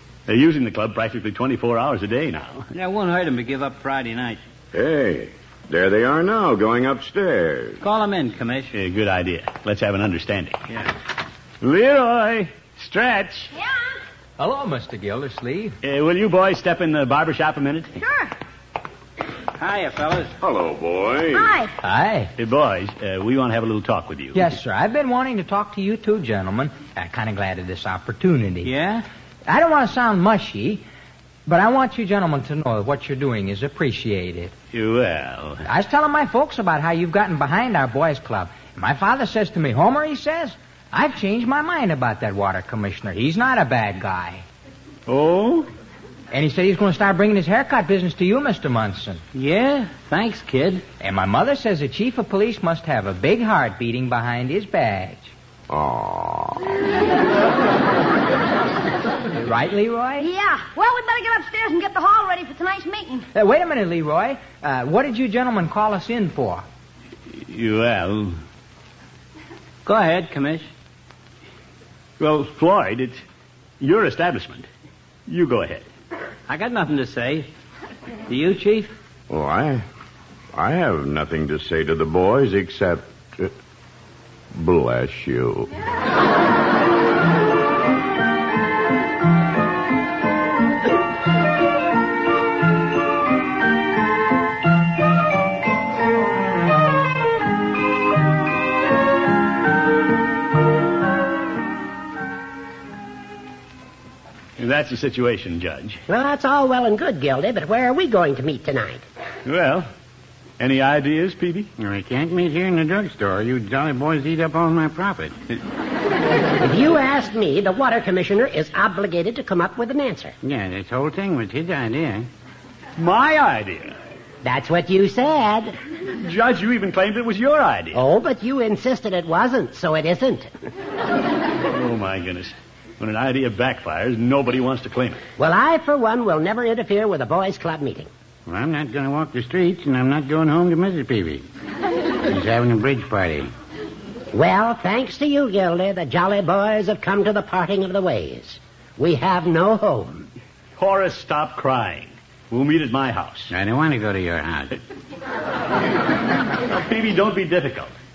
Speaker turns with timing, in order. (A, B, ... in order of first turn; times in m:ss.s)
0:00.3-0:02.7 A
0:02.7-0:04.4 B
0:04.7-0:07.8 C
0:07.8-0:08.7 B
0:08.7-0:10.7 A
0:11.6-0:13.5 A
0:14.4-0:15.8 D
0:15.8-0:18.0 A
0:18.0-0:18.3 E
0:19.6-0:20.3 B
0:20.4-0:21.6 C
0:21.3-0:21.7 E
0:21.8-0:22.3 D
0:22.4-0:24.5 A
0:24.3-0:28.7 D
0:28.6-0:29.1 B
0:29.5-0:30.8 D
0:31.5-0:34.5 D
0:34.7-0:35.6 A
0:35.6-0:44.4 D
0:45.1-0:45.7 A
0:46.3-0:49.2 D
0:49.3-0:50.8 B
0:51.0-0:55.3 D
0:55.7-0:56.6 C
0:59.4-1:00.3 D
1:00.2-1:03.3 E
1:03.3-1:06.7 D
1:07.3-1:08.4 A
1:09.8-1:10.7 B
1:12.2-1:13.2 A
1:13.8-1:14.7 A
1:15.3-1:15.9 A
1:16.5-1:17.5 B
1:18.3-1:18.9 B
1:19.3-1:19.8 C
1:20.5-1:23.5 C
1:24.6-1:25.7 C
1:44.6-1:46.0 A
1:46.1-1:49.0 F
1:49.4-1:49.9 A
1:50.6-1:51.7 A
1:51.8-1:55.4 G
1:56.6-2:00.4 F
2:00.4-2:02.3 G
2:03.0-2:04.0 A
2:04.4-2:05.8 F
2:06.2-2:08.0 A
2:07.9-2:10.5 F
2:11.7-2:15.2 A
2:15.4-2:18.1 F
2:18.5-2:21.5 G
2:22.3-2:23.5 G
2:24.3-2:30.3 F
2:30.8-2:33.5 A
2:33.5-2:34.7 G
2:36.7-2:37.9 A